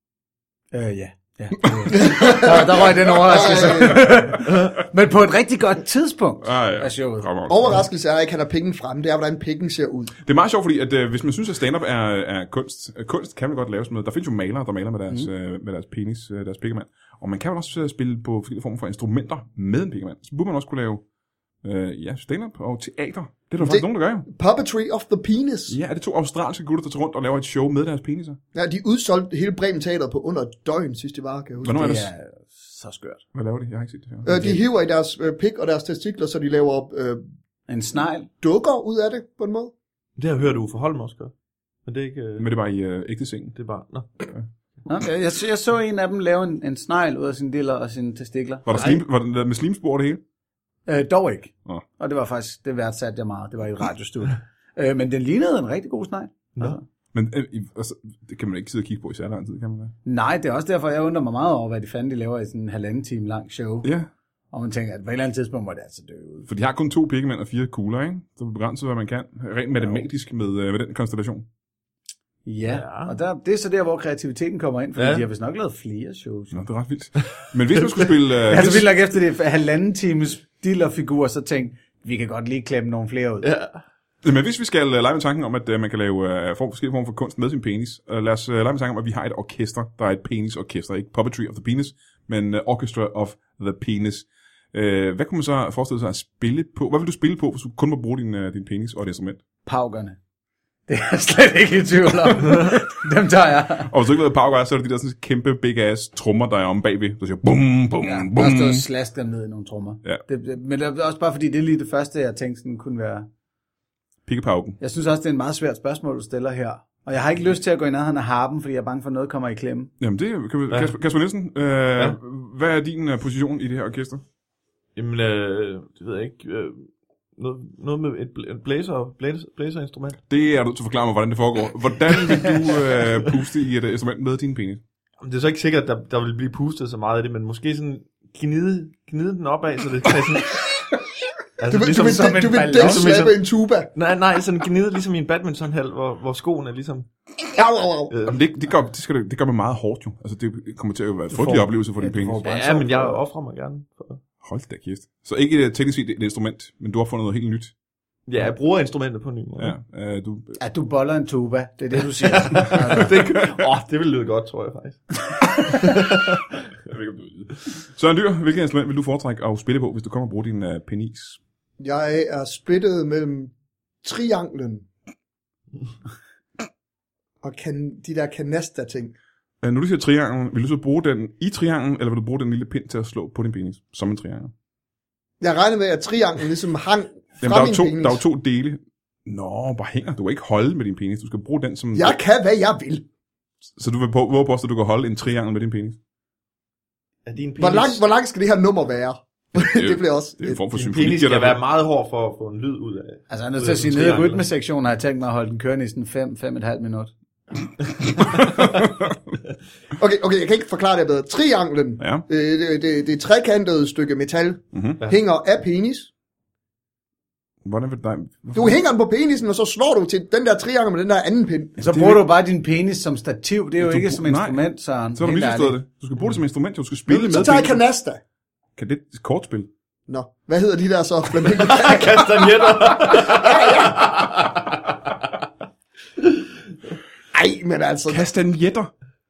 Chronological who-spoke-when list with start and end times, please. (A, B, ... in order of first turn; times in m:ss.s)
0:00.7-0:07.3 A
0:01.9-0:04.2 B
0:06.4-0:07.8 C
0:07.5-0:10.1 B
0:10.2-0:21.0 C
0:21.6-0:24.3 C
0:23.6-0:25.8 B
0:25.7-0:28.4 C
0:28.5-0:32.0 B
0:31.6-0:32.1 C
0:31.8-0:33.2 A
0:33.3-0:34.4 C
0:34.2-0:37.2 B
0:34.3-0:34.6 A
0:37.7-0:38.3 A
0:38.4-0:39.7 B
0:40.2-0:41.3 D
0:41.8-0:42.5 D
0:42.4-0:43.6 C
0:43.6-0:44.1 D
0:44.9-0:48.9 A
0:48.7-0:50.2 C
0:48.7-0:49.0 D
0:50.9-0:56.8 A
0:57.1-1:00.0 C
1:00.1-1:03.9 A
1:03.8-1:04.1 C
1:04.5-1:06.5 A
1:06.5-1:11.5 C
1:12.4-1:16.6 A
1:12.7-1:13.1 D
1:15.0-1:15.2 D
1:16.5-1:18.9 C
1:17.8-1:18.1 D
1:18.5-1:23.5 A
1:23.4-1:23.8 D
1:24.2-1:39.4 C
1:39.7-1:40.2 A
1:40.9-1:43.9 A
1:43.9-1:48.8 C
1:48.0-1:53.3 A
1:54.3-1:54.8 C
1:54.8-1:59.9 A
2:00.0-2:04.2 C
2:00.7-2:01.0 D
2:05.0-2:10.2 D
2:10.3-2:14.8 C
2:15.2-2:20.7 D
2:21.6-2:23.4 D
2:21.7-2:23.9 B
2:22.0-2:23.3 A
2:24.0-2:27.1 D
2:27.5-2:28.1 B
2:28.1-2:28.4 D
2:28.3-2:32.4 C
2:31.3-2:33.2 A
2:32.4-2:34.2 D
2:34.4-2:37.7 C
2:38.3-2:39.8 D
2:39.6-2:40.6 C
2:40.6-2:43.2 A
2:42.2-2:46.5 D
2:42.9-2:43.6 C
2:46.9-2:51.4 C
2:51.8-2:54.9 B
2:57.4-2:59.2 B
2:59.6-3:04.5 C
3:05.4-3:08.2 B
3:07.4-3:12.2 C
3:11.9-3:13.0 B
3:13.8-3:16.0 C
3:17.3-3:18.0 D
3:17.6-3:20.6 B
3:19.6-3:21.6 C
3:20.7-3:24.5 D
3:23.3-3:27.1 A
3:28.2-3:29.3 C
3:30.0-3:36.1 B
3:34.7-3:35.0 C
3:37.6-3:38.8 C
3:38.5-3:41.8 B
3:41.8-3:45.8 A
3:41.8-3:42.2 C
3:43.8-3:44.6 C
3:45.2-3:47.8 C
3:47.1-3:48.2 B
3:48.8-3:49.7 C
3:50.1-3:54.5 B
3:51.5-3:55.0 D
3:57.3-3:58.3 B
3:58.1-3:58.9 C